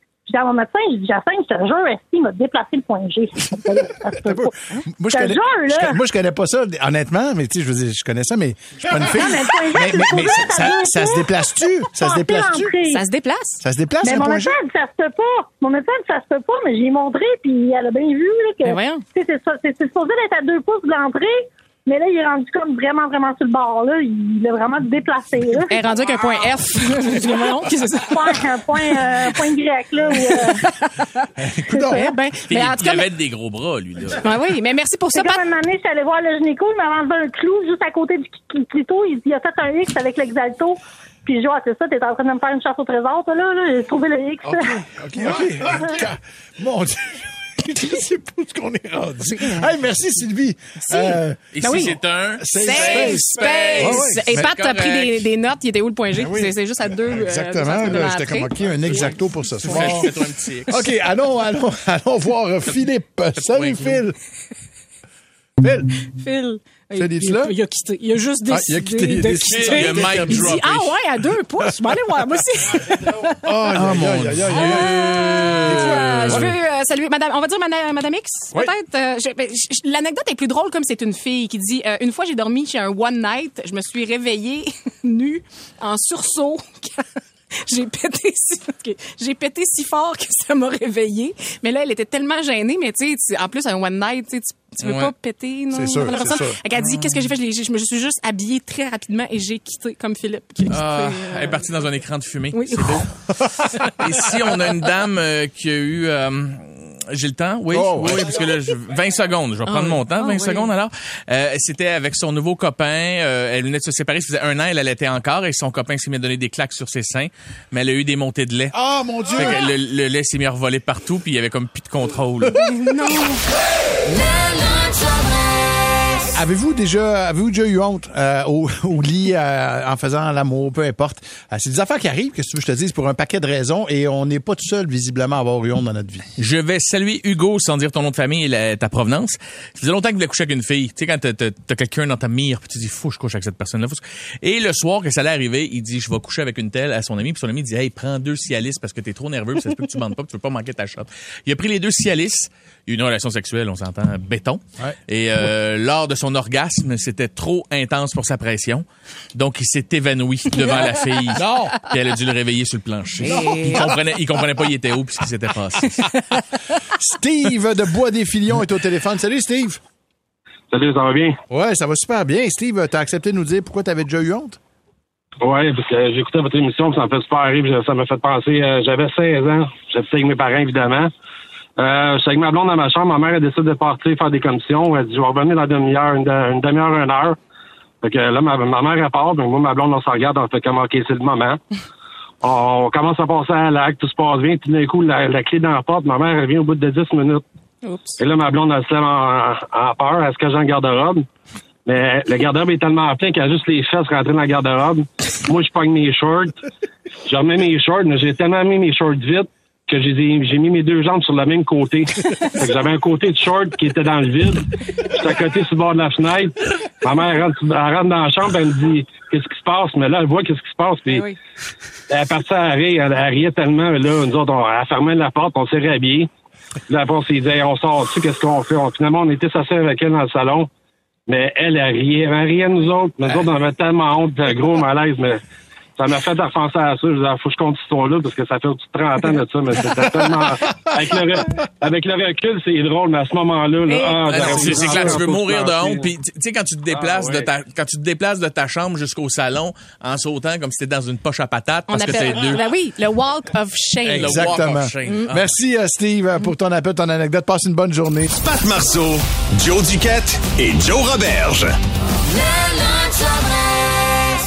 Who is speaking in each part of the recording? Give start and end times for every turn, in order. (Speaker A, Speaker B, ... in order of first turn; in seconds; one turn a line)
Speaker A: 0.3-4.5
Speaker B: 4.2-12.7
Speaker A: 5.1-6.0
Speaker A: 9.0-13.0
Speaker C: 12.8-13.6
Speaker B: 13.6-14.6
Speaker A: 14.0-21.3
Speaker C: 18.6-19.0
Speaker A: 21.9-25.8
Speaker C: 25.7-29.5
Speaker A: 28.1-30.6
Speaker C: 30.1-33.1
Speaker B: 31.4-32.1
Speaker D: 32.5-34.2
Speaker C: 34.2-35.4
Speaker A: 35.1-44.7
Speaker B: 44.4-51.5
Speaker C: 50.8-52.0
Speaker D: 51.5-55.2
Speaker B: 52.4-54.5
Speaker C: 52.5-60.1
Speaker B: 56.1-56.5
Speaker B: 57.0-60.1
Speaker D: 58.8-60.8
Speaker B: 60.7-64.2
Speaker D: 63.4-64.0
Speaker B: 65.6-65.9
Speaker C: 66.1-73.5
Speaker B: 66.9-67.5
Speaker B: 68.5-70.5
Speaker D: 69.5-71.0
Speaker B: 73.4-76.5
Speaker D: 73.7-76.5
Speaker C: 74.5-101.6
Speaker D: 94.8-95.1
Speaker B: 95.7-96.6
Speaker D: 96.1-97.3
Speaker D: 100.7-103.1
Speaker C: 102.5-103.0
Speaker D: 103.8-118.8
Speaker B: 107.7-108.3
Speaker C: 109.7-110.7
Speaker B: 118.7-119.6
Speaker D: 119.3-122.6
Speaker C: 122.6-123.4
Speaker B: 126.3-136.2
Speaker D: 136.4-166.0
Speaker B: 161.3-161.8
Speaker B: 163.2-164.0
Speaker C: 163.2-163.9
Speaker C: 166.0-166.2
Speaker B: 166.9-169.8
Speaker E: 170.7-171.3
Speaker B: 171.5-174.6
Speaker E: 175.4-181.1
Speaker E: 181.8-187.3
Speaker E: 188.0-191.6
Speaker E: 192.4-197.4
Speaker C: 197.8-198.2
Speaker E: 198.2-201.2
Speaker E: 201.8-206.5
Speaker E: 207.3-221.2
Speaker C: 221.1-221.3
Speaker E: 222.1-226.3
Speaker E: 226.9-230.7
Speaker E: 231.3-235.4
Speaker E: 236.0-246.1
Speaker C: 243.9-245.2
Speaker D: 244.2-252.6
Speaker E: 246.9-247.5
Speaker C: 251.9-254.5
Speaker B: 254.0-258.3
Speaker D: 254.1-255.5
Speaker F: 258.4-261.8